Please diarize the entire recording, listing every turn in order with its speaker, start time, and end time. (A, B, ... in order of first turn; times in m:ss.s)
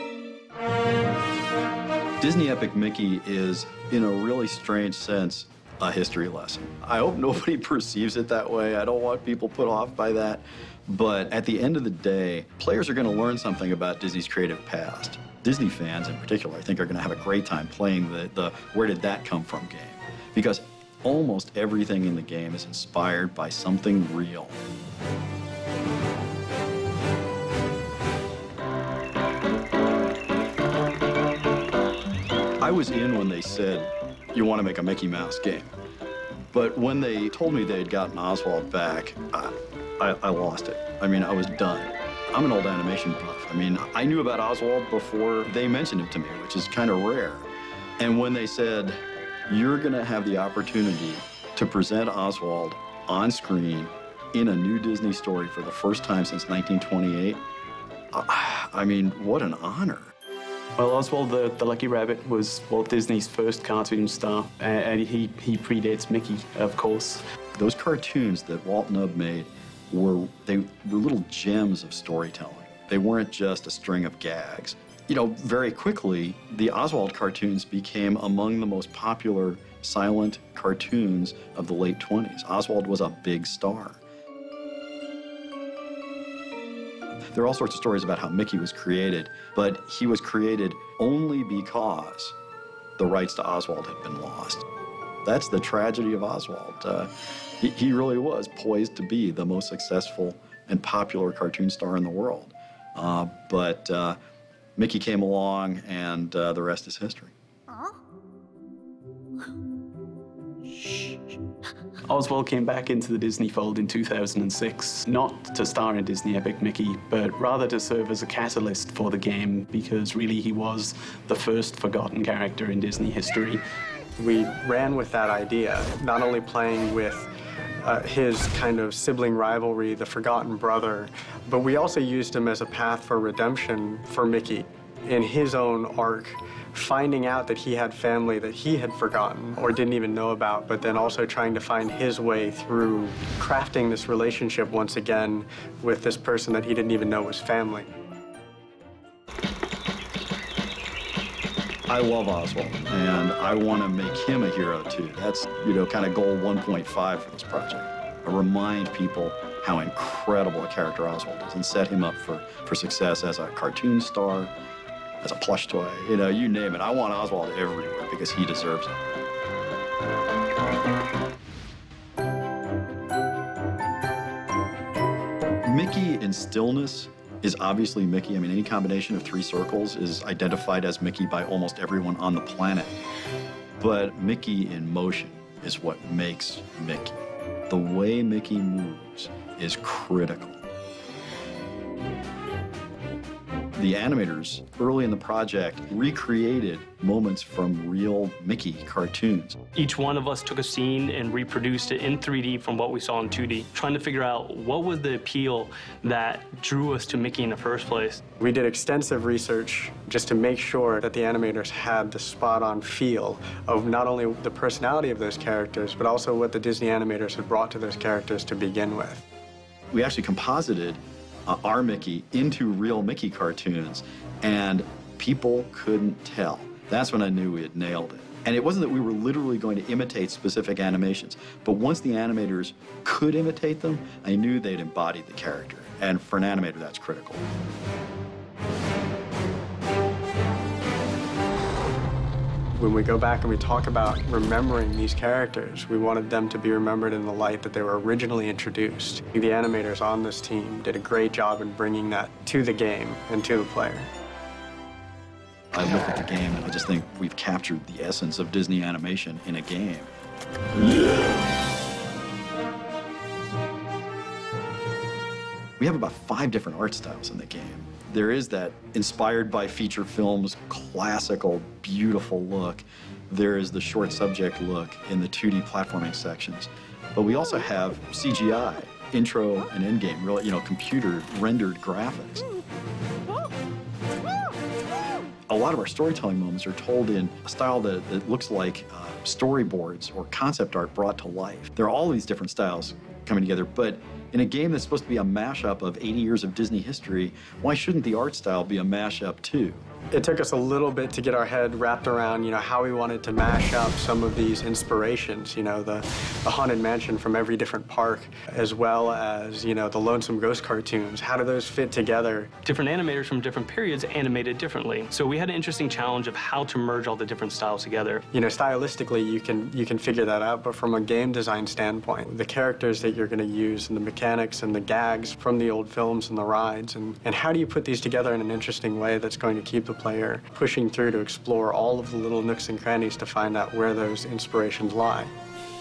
0:02.2-0:24.6 A
0:32.6-0:35.7 A
0:36.5-0:47.5 A
0:48.0-0:57.4 A
0:58.1-1:00.1 A
1:00.8-1:07.2 B
1:07.6-1:24.0 A
1:27.3-1:32.4 A
1:33.0-1:34.6 A
1:35.2-1:44.2 A
1:44.8-1:47.3 A
1:52.1-2:03.6 B
2:04.2-2:07.3 C
2:07.8-2:27.9 C
2:31.9-2:44.5 A
2:45.2-2:48.9 A
2:55.6-3:03.0 A
3:03.8-3:07.2 A
3:07.7-3:10.6 A
3:13.8-3:19.6 A
3:19.8-3:28.2 D
3:28.4-3:39.2 C
3:39.9-3:57.4 A
4:02.8-4:14.1 C
4:15.7-4:20.1 A
4:25.8-4:42.4 A
4:45.5-4:59.8 A
5:00.1-5:12.5 C
5:12.6-5:18.2 D
5:18.3-5:35.3 C